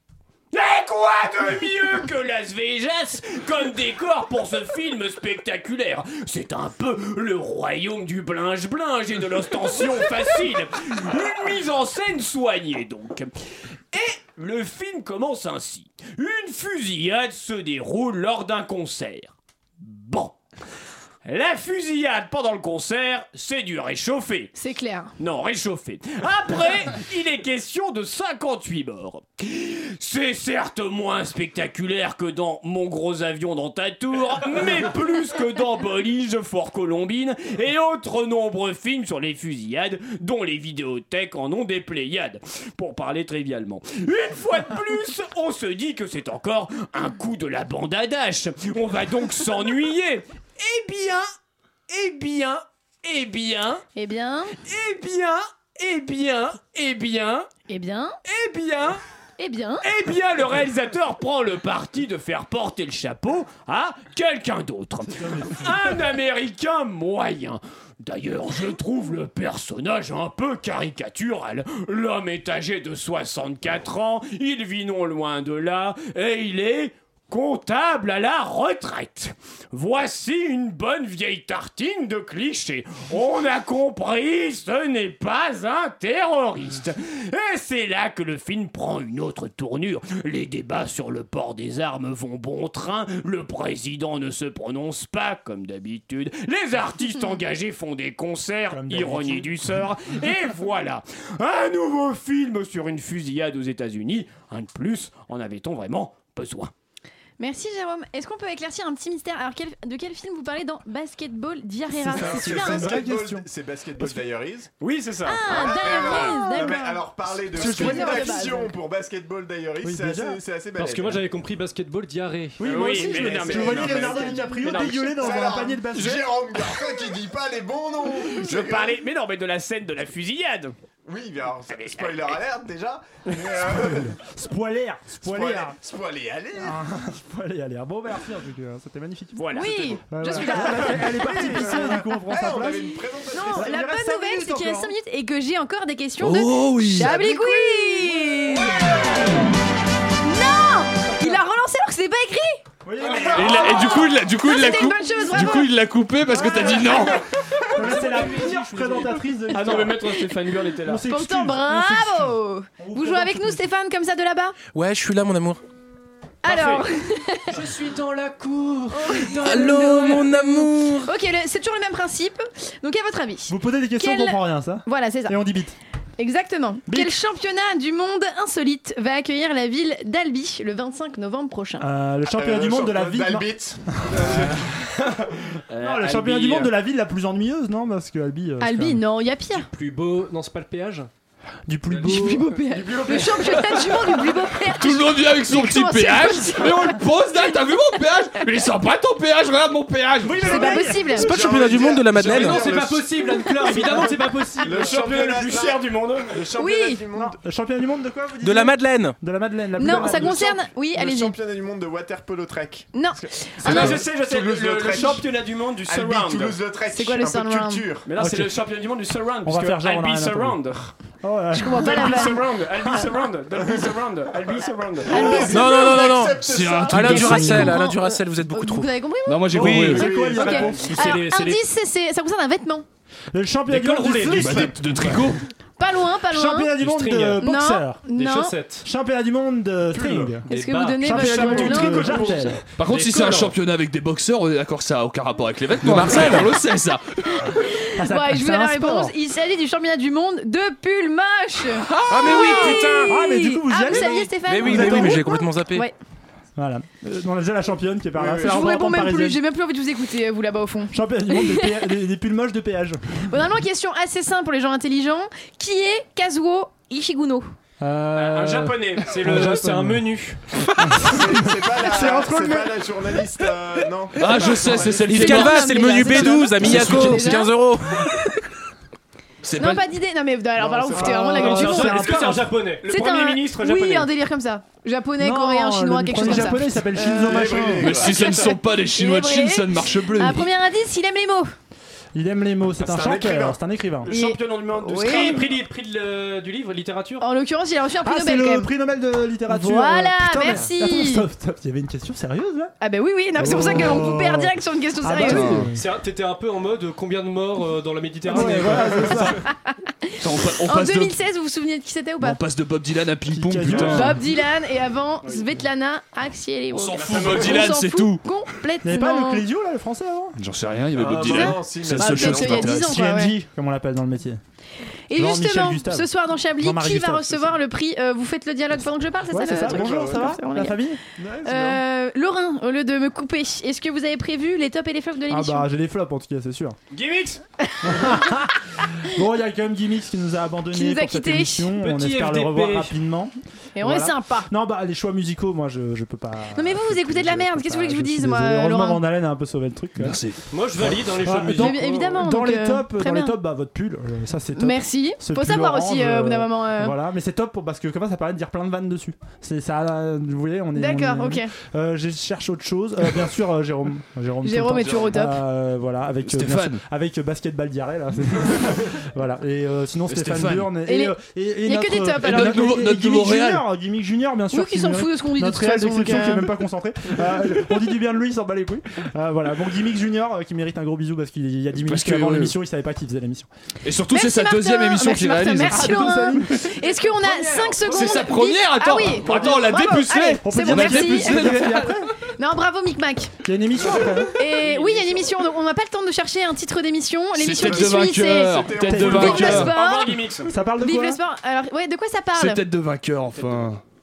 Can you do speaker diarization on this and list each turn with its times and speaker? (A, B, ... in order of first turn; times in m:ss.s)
0:00.5-0:13.3 A
0:13.9-0:20.4 A
0:21.2-0:24.5 A
0:24.5-0:25.1 B
0:25.2-0:51.3 A
0:51.9-0:53.8 A
0:54.0-0:54.6 B
0:54.6-0:57.5 A
0:57.7-0:58.2 B
0:58.2-0:59.0 A
0:59.4-0:59.8 B
0:59.8-1:46.7 A
1:05.2-1:05.6 C
1:38.7-1:39.5 C
1:47.4-1:53.0 B
1:52.0-1:53.5 C
1:52.2-1:54.7 D
1:54.8-1:55.5 A
1:55.3-1:58.7 B
1:55.5-2:01.3 D
1:57.6-1:58.5 C
1:59.8-2:00.4 C
2:00.8-2:03.8 E
2:02.6-2:06.3 C
2:02.6-2:05.5 A
2:04.2-2:04.6 B
2:05.2-2:09.0 D
2:08.3-2:10.8 A
2:11.1-2:14.2 D
2:11.7-2:12.4 A
2:13.8-2:15.8 C
2:15.2-2:16.8 D
2:16.6-2:19.5 C
2:19.4-2:21.0 A
2:19.5-2:22.1 B
2:20.1-2:22.9 C
2:21.0-2:23.8 D
2:23.3-2:28.8 B
2:23.6-2:24.9 C
2:26.2-2:27.1 F
2:27.0-2:28.7 C
2:30.2-2:32.6 B
2:32.8-2:34.1 C
2:33.0-2:33.6 A
2:33.3-2:37.2 F
2:33.4-2:35.7 B
2:36.3-2:37.1 C
2:36.4-2:41.0 A
2:37.7-2:40.2 C
2:37.9-2:39.2 E
2:40.9-2:43.6 C
2:41.1-2:44.6 B
2:44.7-2:45.6 G
2:46.4-2:46.8 A
2:46.4-2:47.6 B
2:47.5-2:50.3 E
2:48.9-2:55.4 B
2:49.4-2:51.1 G
2:53.5-2:55.8 C
2:56.2-3:01.9 B
2:56.9-2:57.2 C
3:01.8-3:04.6 C
3:02.2-3:04.7 D
3:05.7-3:06.7 A
3:05.8-3:09.0 C
3:08.6-3:09.7 B
3:09.5-3:11.1 E
3:11.7-3:12.5 C
3:12.0-3:17.0 B
3:12.7-3:14.2 D
3:14.7-3:20.6 F
3:20.2-3:21.2 C
3:20.4-3:27.4 D
3:20.4-3:21.4 B
3:21.1-3:22.8 G
3:22.2-3:25.0 E
3:24.6-3:26.5 A
3:26.6-3:27.0 B
3:27.2-3:30.4 C
3:28.4-3:29.2 G
3:29.8-3:31.4 B
3:29.9-3:35.3 D
3:32.9-3:34.0 B
3:33.6-3:36.6 A
3:35.8-3:38.1 D
3:36.9-3:37.9 B
3:38.0-3:40.9 A
3:38.2-3:38.5 C
3:39.4-3:40.6 C
3:41.2-3:42.4 C
3:41.5-3:42.9 B
3:41.8-3:45.5 A
3:45.0-3:47.4 D
3:45.1-3:45.9 B
3:45.5-3:48.9 G
3:46.5-3:47.7 F
3:47.4-3:49.6 B
3:49.3-3:50.2 F
3:49.5-3:50.9 C
3:49.6-3:50.3 G
3:49.7-3:51.2 D
3:50.2-3:52.8 B
3:50.7-3:51.6 E
3:53.3-3:55.3 C
3:53.7-3:54.7 E
3:54.3-3:55.4 F
3:55.8-3:56.7 B
3:56.3-3:58.0 C
3:56.8-3:57.4 E
3:57.4-3:58.6 B
3:58.2-3:58.9 E
3:58.8-4:00.4 C
4:00.5-4:02.4 B
4:00.5-4:03.5 E
4:01.0-4:02.6 C
4:01.3-4:02.6 A
4:02.8-4:07.6 F
4:05.8-4:06.5 G
4:08.0-4:09.2 C
4:08.0-4:15.9 B
4:11.9-4:13.2 G
4:13.1-4:15.2 C
4:13.9-4:15.9 G
4:16.6-4:19.4 C
4:18.4-4:21.7 B
4:20.9-4:23.0 C
4:23.3-4:27.5 B
4:27.8-4:30.0 C
4:28.1-4:29.2 A
4:29.0-4:30.4 E
4:30.8-4:32.7 C
4:31.0-4:35.1 D
4:34.2-4:37.5 F
4:35.0-4:38.1 G
4:35.1-4:38.2 B
4:39.4-4:39.8 F
4:39.6-4:42.2 B
4:40.6-4:41.2 D
4:41.0-4:42.5 C
4:41.3-4:44.1 E
4:42.8-4:51.5 B
4:45.2-4:48.0 C
4:46.9-4:48.4 D
4:47.8-4:50.5 F
4:52.1-4:54.1 C
4:52.8-4:53.6 D
4:54.0-4:55.5 A
4:54.1-4:55.4 B
4:54.9-4:57.2 E
4:57.2-4:58.7 B
4:58.0-5:02.7 C
4:59.5-5:01.3 B
5:02.8-5:05.6 B
5:03.4-5:05.8 C
5:05.2-5:05.7 F
5:05.8-5:09.4 E
5:08.3-5:09.4 C
5:08.4-5:09.3 G
5:09.5-5:12.4 B
5:10.2-5:11.2 F
5:12.2-5:14.2 F
5:13.3-5:14.2 C
5:13.9-5:19.4 B
5:16.7-5:18.2 F
5:18.8-5:20.4 C
5:20.4-5:23.1 F
5:21.0-5:22.8 D
5:21.2-5:23.4 B
5:22.8-5:24.4 C
5:25.1-5:30.8 B
5:25.1-5:27.6 C
5:29.3-5:31.8 C
5:29.6-5:30.4 D
5:31.4-5:35.7 B
5:35.3-5:36.8 C
5:36.9-5:37.4 A
5:37.7-5:38.2 B
5:37.8-5:50.2 C
5:40.7-5:41.7 B
5:41.8-5:43.0 E
5:43.8-5:44.5 B
5:46.5-5:49.0 B
5:50.0-5:50.4 F
5:50.5-5:52.2 E
5:50.8-6:23.5 C
5:51.6-5:53.4 B
5:54.6-5:57.0 B
6:00.8-6:01.5 B
6:04.4-6:05.4 B
6:04.8-6:05.2 F
6:06.2-6:06.8 F
6:10.1-6:10.7 F
6:10.8-6:12.7 B
6:12.2-6:13.7 F
6:14.5-6:16.5 B
6:21.8-6:22.6 F
6:23.8-6:26.0 F
6:24.1-6:31.6 B
6:25.6-6:26.7 C
6:27.4-6:27.8 A
6:27.9-6:32.0 F
6:29.2-6:29.9 C
6:30.4-6:32.1 C
6:32.4-6:33.3 B
6:33.4-6:34.4 C
6:34.4-6:40.2 B
6:34.5-6:35.3 A
6:37.4-6:39.8 F
6:37.6-6:39.6 D
6:38.9-6:39.7 C
6:39.2-6:40.5 A
6:40.5-6:41.2 C
6:40.8-6:42.6 B
6:42.3-6:43.8 F